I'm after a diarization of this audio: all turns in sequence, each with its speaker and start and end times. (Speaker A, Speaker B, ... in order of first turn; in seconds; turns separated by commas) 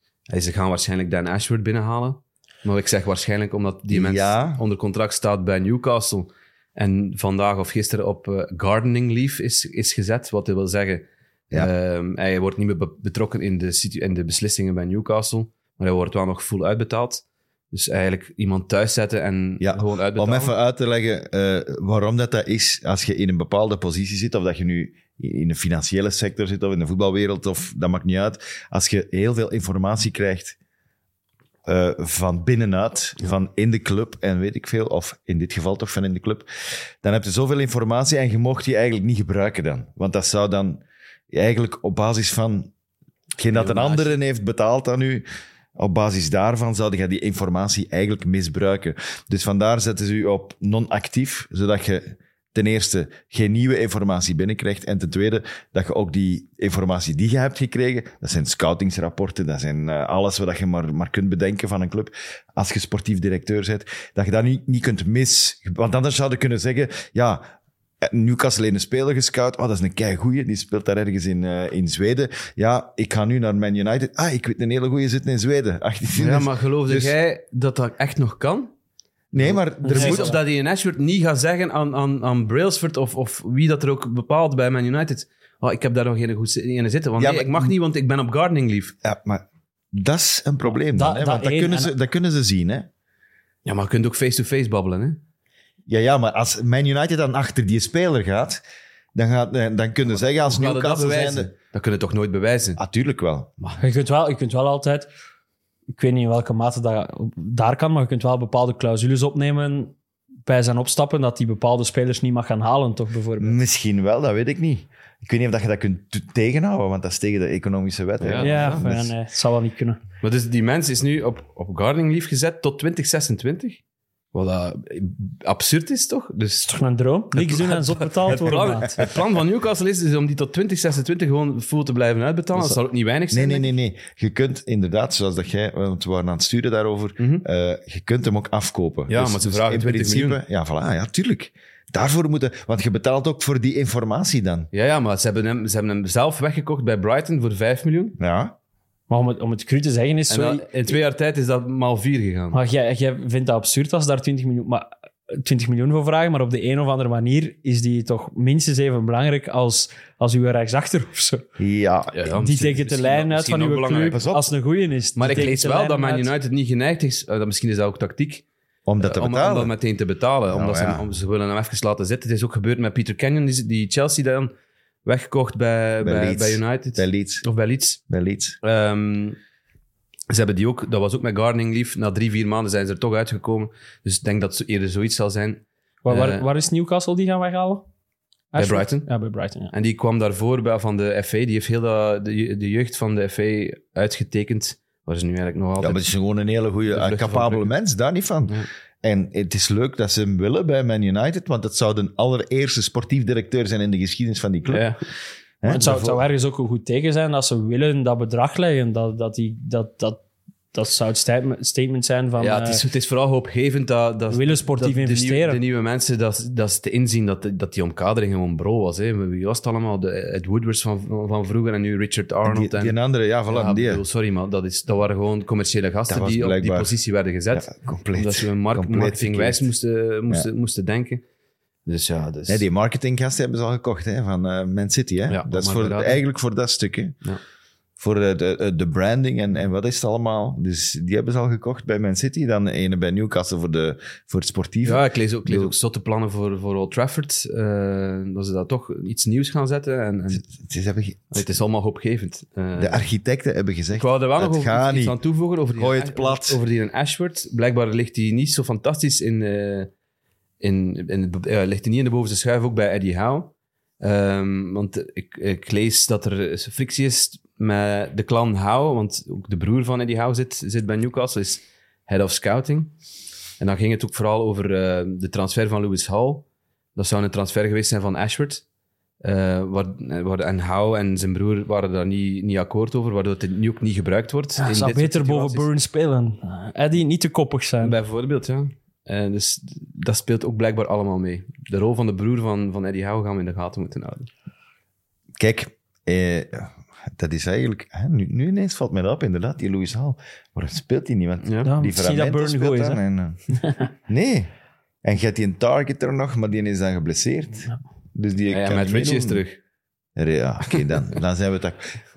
Speaker A: 0.3-20.5, Speaker B: 3.9-4.6, Speaker B: 19.6-30.6, Speaker B: 31.6-36.5, Speaker B: 37.0-42.7, Speaker B: 43.4-45.2, Speaker A: 43.5-44.1, Speaker B: 45.8-67.4, Speaker B: 68.0-77.1, Speaker A: 76.1-78.7, Speaker B: 79.3-80.4, Speaker A: 79.4-89.0, Speaker C: 79.8-80.4, Speaker B: 87.2-87.7, Speaker B: 89.0-92.9, Speaker C: 90.9-91.9, Speaker A: 93.6-95.2, Speaker B: 95.9-98.6, Speaker B: 99.1-101.5, Speaker A: 100.1-102.8, Speaker B: 102.8-103.5, Speaker C: 103.8-105.1, Speaker C: 106.0-113.6, Speaker B: 113.4-119.1, Speaker A: 118.2-118.8, Speaker C: 118.4-120.0, Speaker A: 120.2-123.8, Speaker A: 124.3-126.7, Speaker C: 126.7-129.0, Speaker A: 127.3-133.7, Speaker B: 133.3-144.7, Speaker A: 137.2-137.4, Speaker A: 139.1-140.4, Speaker A: 144.7-148.2, Speaker B: 148.2-148.6, Speaker C: 149.1-150.7, Speaker A: 150.3-152.6, Speaker C: 152.5-161.4, Speaker B: 161.6-162.3, Speaker A: 162.1-164.2, Speaker C: 162.4-166.3, Speaker B: 164.1-164.5, Speaker A: 165.2-168.4, Speaker B: 168.9-169.7, Speaker A: 169.0-174.5, Speaker B: 170.5-171.1, Speaker A: 175.1-178.0, Speaker B: 176.0-177.4, Speaker B: 178.1-178.6, Speaker A: 178.6-179.4, Speaker A: 180.3-186.4, Speaker C: 186.1-187.9, Speaker C: 188.5-189.7, Speaker A: 188.6-189.1, Speaker A: 189.7-196.0, Speaker B: 195.8-204.9, Speaker A: 196.9-197.7, Speaker A: 204.7-205.0, Speaker B: 205.6-206.2, Speaker C: 205.6-210.2, Speaker C: 210.7-212.8, Speaker A: 212.4-222.9, Speaker C: 214.3-215.6, Speaker B: 222.4-224.0, Speaker A: 223.5-231.2, Speaker B: 226.1-226.9, Speaker B: 227.5-229.6, Speaker A: 231.9-232.6, Speaker B: 232.5-237.2, Speaker A: 235.3-236.2, Speaker B: 238.0-245.7, Speaker A: 244.8-250.5, Speaker B: 250.4-251.4, Speaker A: 251.3-253.0, Speaker B: 252.8-255.2, Speaker A: 253.9-259.9, Speaker B: 255.7-256.6, Speaker A: 260.6-272.9, Speaker A: 273.6-276.4, Speaker A: 276.9-278.6, Speaker A: 279.2-285.7, Speaker C: 284.6-287.9, Speaker A: 287.8-294.3, Speaker B: 295.4-303.5, Speaker A: 301.4-301.7, Speaker C: 301.6-303.0, Speaker C: 303.6-303.9, Speaker B: 304.1-304.5, Speaker B: 305.0-309.4, Speaker A: 308.5-309.6, Speaker B: 310.1-312.0